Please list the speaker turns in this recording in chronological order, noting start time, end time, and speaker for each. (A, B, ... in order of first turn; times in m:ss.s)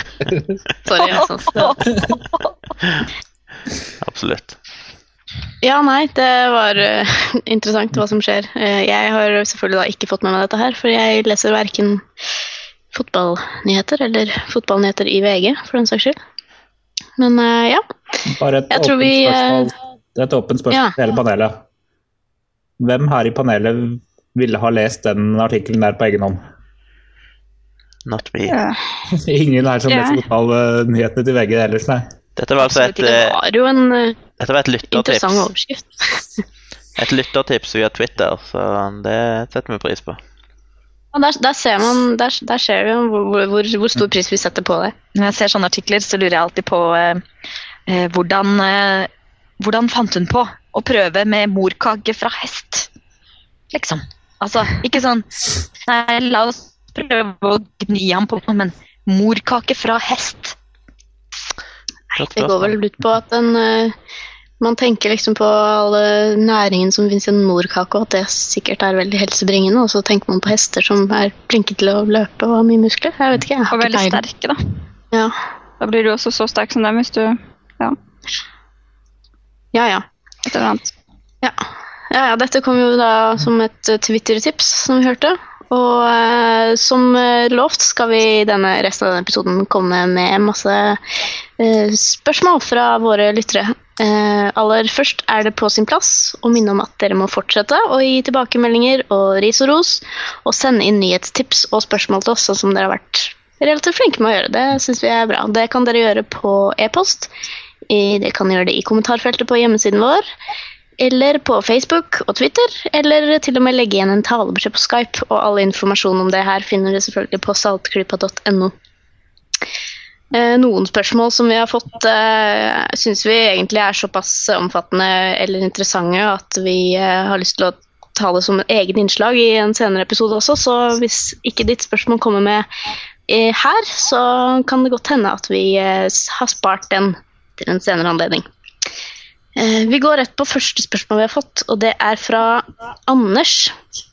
0:00.8-0:01.8 A
0:01.0-0:02.5 B
0:04.0-0:04.6 C
0:05.6-0:12.0 A
0:12.9-0:16.2 A
0:17.2-0:17.8 A
0:18.2-0:21.6 D
0:18.7-0:19.7 A
0:22.8-0:26.4 D
0:28.0-0:28.6 C
0:28.5-0:28.8 E
0:29.1-0:32.1 D
0:29.9-0:30.2 E
0:32.4-0:33.4 C
0:32.6-0:34.2 A
0:34.4-0:35.5 C
0:34.9-0:36.4 A
0:37.0-0:40.2 C
0:41.1-0:44.9 A
0:45.1-0:47.2 B
0:47.9-0:52.9 B
0:53.7-0:55.3 B
0:55.9-1:00.6 B
1:02.1-1:02.7 C
1:02.2-1:03.9 A
1:04.6-1:13.7 A
1:13.7-1:14.6 E
1:13.8-1:14.2 B
1:15.8-1:18.0 E
1:19.7-1:20.0 A
1:20.5-1:20.9 E
1:22.1-1:31.0 A
1:31.6-1:47.3 A
1:47.9-1:50.2 A
1:51.0-1:58.7 A
2:00.3-2:12.7 A
2:13.3-2:18.4 A
2:19.6-2:23.8 A